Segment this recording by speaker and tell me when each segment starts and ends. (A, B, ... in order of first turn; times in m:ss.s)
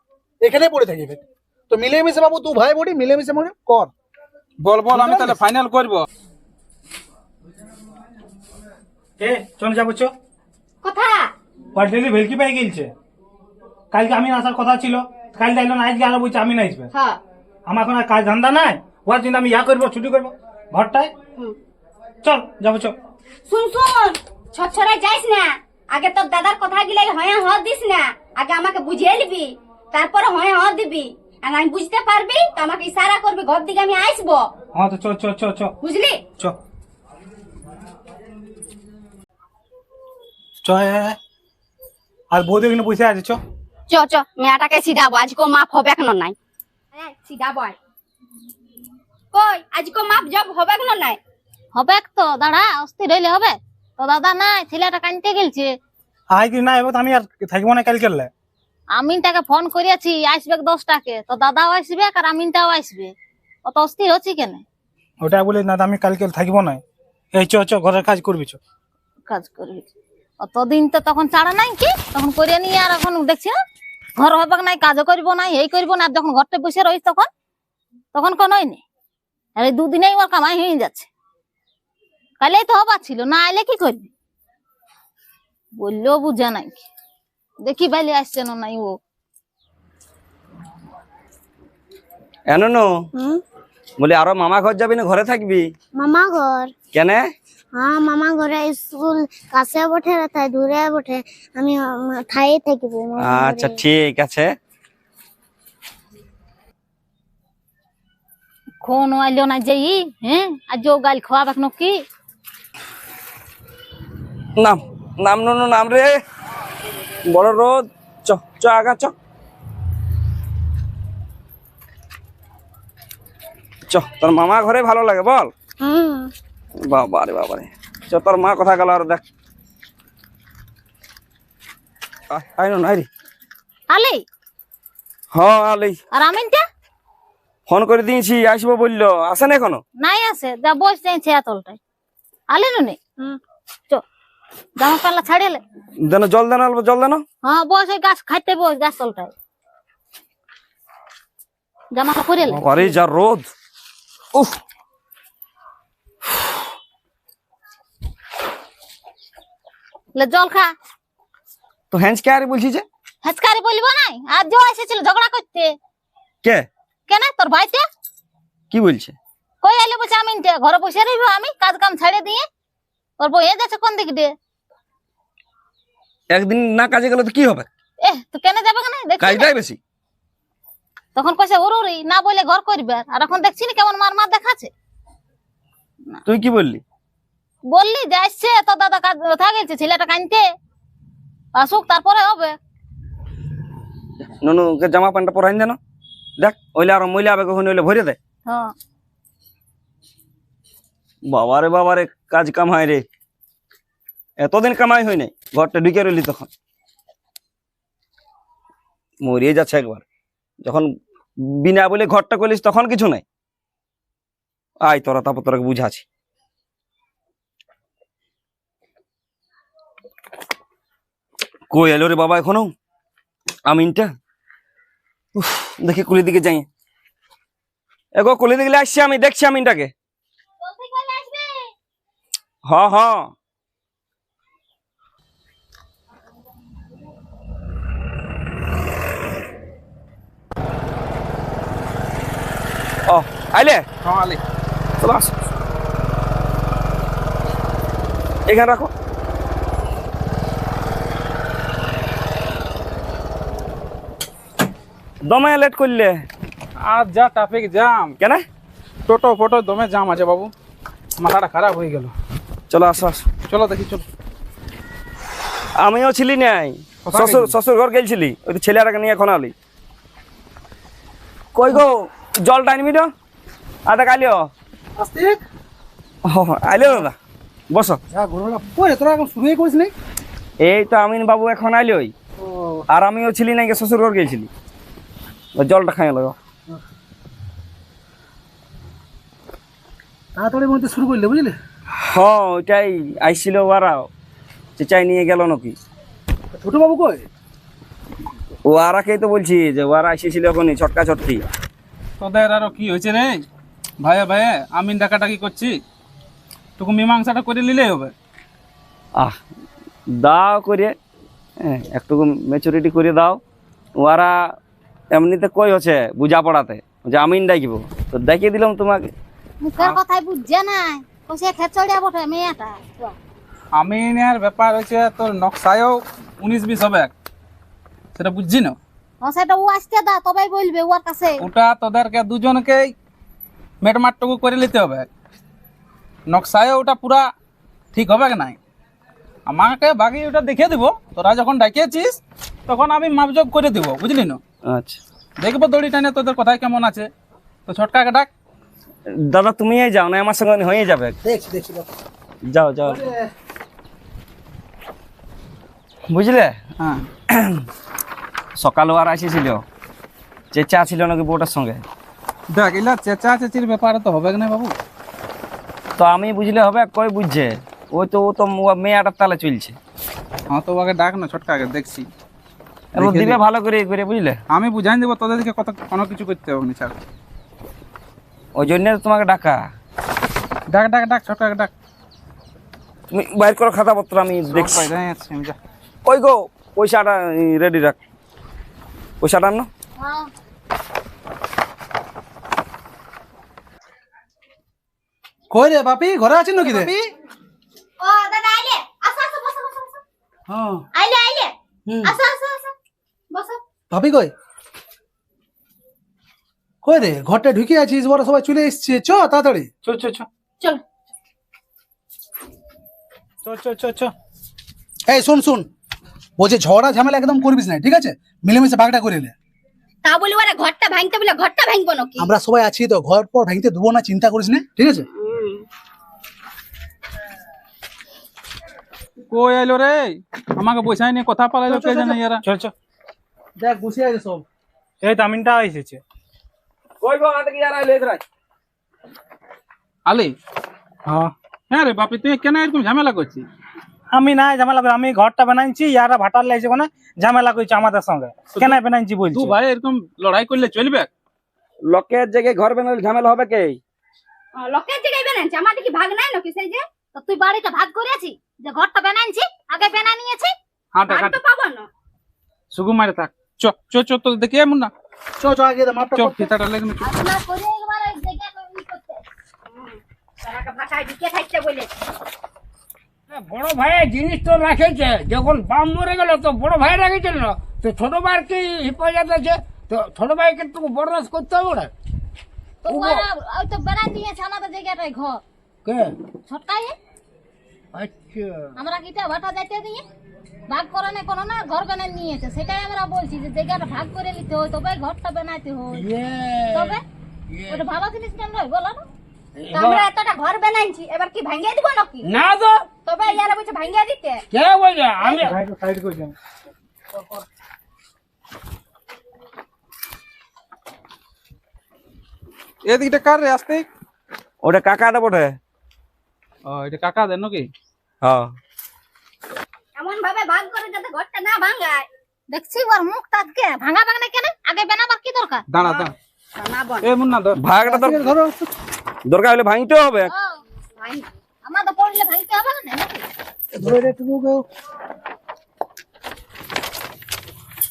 0:00.4-0:03.9 A
0:04.6-0:06.0 B
0:04.9-0:05.4 A
0:09.2-0:10.1 C
0:10.8-0:11.3 D
0:11.7-0:12.9 C
0:13.9-0:16.9 C
0:16.9-0:17.2 D
0:17.6-0:21.1 C
0:22.2-0:22.9 C
0:23.5-0:34.5 D
0:34.7-0:35.7 C
0:35.8-0:36.2 D
0:40.6-0:41.2 C
0:42.3-0:43.4 C
0:43.9-0:46.4 D
0:46.9-0:47.8 D
0:49.3-0:51.2 D
0:51.7-0:55.7 E
0:56.3-0:58.3 C
0:58.9-1:03.1 E
1:03.6-1:04.6 E
1:05.2-1:06.8 C
1:07.3-1:08.6 C
1:09.3-1:09.9 E
1:10.4-1:13.5 E
1:14.2-1:17.3 E
1:18.1-1:18.8 E
1:19.6-1:21.1 E
1:22.4-1:24.1 E
1:25.8-1:26.8 E
1:27.6-1:28.9 E
1:32.5-1:32.9 F
1:33.1-1:33.4 G
1:34.0-1:35.7 F
1:36.0-1:36.7 G
1:36.9-1:37.2 F
1:37.7-1:43.8 G
1:43.2-1:44.5 F
1:48.8-1:52.0 E
1:54.6-1:56.2 F
1:57.3-1:59.1 F
2:03.9-2:05.5 F
2:05.8-2:06.3 G
2:06.8-2:09.2 F
2:12.3-2:13.1 F
2:13.9-2:14.2 E
2:15.3-2:16.0 F
2:16.1-2:16.6 E
2:17.7-2:19.8 F
2:20.0-2:21.8 E
2:22.5-2:23.0 E
2:24.8-2:25.6 E
2:26.0-2:27.2 F
2:27.4-2:29.3 E
2:31.9-2:32.8 E
2:32.5-2:33.5 F
2:40.1-2:40.7 E
2:41.9-2:42.8 F
2:43.2-2:45.7 E
2:47.1-2:47.8 E
2:48.7-2:49.1 F
2:49.6-2:52.4 E
2:53.2-2:54.3 E
2:56.3-2:57.7 F
2:58.0-2:59.5 E
2:59.2-2:59.8 F
3:01.1-3:04.7 E
3:06.3-3:06.8 F
3:07.7-3:10.4 E
3:11.5-3:12.6 E
3:14.4-3:15.8 F
3:16.4-3:18.2 F
3:21.3-3:23.0 F
3:24.4-3:26.5 F
3:29.2-3:30.0 F
3:31.5-3:33.2 F
3:34.8-3:36.0 F
3:41.7-3:42.7 F
3:43.7-3:44.1 F
3:45.4-3:46.6 F
3:48.2-3:49.9 F
3:50.6-3:51.6 E
3:52.7-3:53.3 F
4:03.1-4:03.8 F
4:04.0-4:04.4 B
4:05.0-4:05.3 F
4:08.5-4:08.9 F
4:15.2-4:16.2 F
4:16.8-4:18.1 B
4:19.1-4:20.5 B
4:21.2-4:22.1 B
4:22.7-4:23.2 F
4:23.5-4:24.0 B
4:25.8-4:29.5 F
4:27.0-4:27.5 B
4:31.5-4:33.1 F
4:33.8-4:34.5 F
4:35.0-4:35.4 A
4:36.2-4:37.2 F
4:37.7-4:38.0 F
4:38.1-4:39.9 A
4:40.6-4:42.1 F
4:42.4-4:42.8 A
4:42.9-4:44.5 F
4:45.6-4:46.4 F
4:50.3-4:51.6 A
4:51.9-4:54.1 F
4:54.8-4:55.7 F
4:56.5-4:57.2 A
4:58.6-5:01.4 F
5:02.2-5:03.4 B
5:04.0-5:05.8 B
5:06.8-5:08.1 B
5:10.1-5:10.9 F
5:11.6-5:13.4 F
5:14.0-5:14.5 F
5:15.1-5:19.1 F
5:19.6-5:23.2 E
5:23.7-5:27.1 B
5:28.2-5:28.8 B
5:29.2-5:31.4 E
5:31.4-5:32.9 B
5:33.8-5:35.1 B
5:36.3-5:37.3 B
5:37.9-5:38.6 B
5:39.4-5:44.4 B
5:44.7-5:45.0 F
5:45.4-5:47.1 B
5:47.7-5:48.3 B
5:49.1-5:51.2 F
5:51.2-5:51.9 A
5:52.4-5:53.0 F
5:52.8-5:53.2 A
5:56.1-5:56.6 F
5:56.8-5:57.1 B
5:57.3-5:57.6 F
5:58.6-5:59.6 F
6:00.5-6:01.8 F
6:02.5-6:04.8 B
6:06.0-6:09.8 F
6:10.5-6:12.1 B
6:12.9-6:14.4 F
6:13.0-6:13.4 B
6:14.5-6:17.0 B
6:18.6-6:19.6 F
6:20.7-6:21.7 B
6:23.1-6:24.9 F
6:24.5-6:25.6 B
6:26.0-6:28.0 F
6:29.2-6:29.7 F
6:30.0-6:30.3 E
6:35.5-6:37.0 A
6:38.0-6:40.0 D
6:40.5-6:40.8 A
6:40.9-6:41.5 D
6:41.9-6:42.1 A
6:42.0-6:42.7 D
6:43.3-6:43.6 D
6:43.9-6:44.3 A
6:46.8-6:49.7 A
6:49.8-6:50.3 C
6:53.4-6:54.1 C
6:55.1-6:55.7 A
6:56.4-6:59.3 A
7:00.0-7:02.2 D
7:02.2-7:05.1 A
7:09.3-7:12.4 B
7:11.7-7:12.2 A
7:12.4-7:12.7 C
7:13.6-7:14.4 A
7:15.0-7:16.0 C
7:17.0-7:18.2 F
7:20.0-7:20.3 B
7:21.0-7:21.3 C
7:21.7-7:23.5 B
7:24.1-7:29.6 C
7:29.3-7:31.1 B
7:31.8-7:33.8 F
7:34.6-7:36.8 D
7:37.1-7:40.5 E
7:40.9-7:41.4 B
7:41.1-7:41.9 D
7:42.7-7:44.9 B
7:45.4-7:46.5 A
7:46.2-7:47.1 B
7:47.0-7:49.2 E
7:49.7-7:51.9 D
7:53.3-8:01.9 H
8:02.8-8:05.4 E
8:02.9-8:03.2 H
8:05.8-8:06.2 H
8:06.5-8:07.0 E
8:07.9-8:08.7 H
8:08.8-8:10.0 E
8:10.7-8:16.0 E
8:15.9-8:17.9 H
8:16.7-8:17.0 E
8:17.7-8:19.0 E
8:19.6-8:20.0 H
8:19.7-8:22.2 D
8:22.2-8:22.9 H
8:23.0-8:24.4 D
8:24.5-8:25.6 H
8:25.3-8:26.3 C
8:27.1-8:27.4 C
8:32.8-8:33.8 B
8:34.6-8:35.6 F
8:36.6-8:37.7 B
8:38.2-8:38.5 F
8:39.9-8:42.1 D
8:42.5-8:45.6 E
8:45.7-8:46.1 B
8:46.6-8:47.0 D
8:47.0-8:47.6 B
8:47.5-8:48.3 F
8:47.8-8:48.7 A
8:49.2-8:50.3 F
8:50.2-8:50.6 E
8:51.0-8:51.3 D
8:51.6-8:53.2 E
8:53.7-8:54.6 A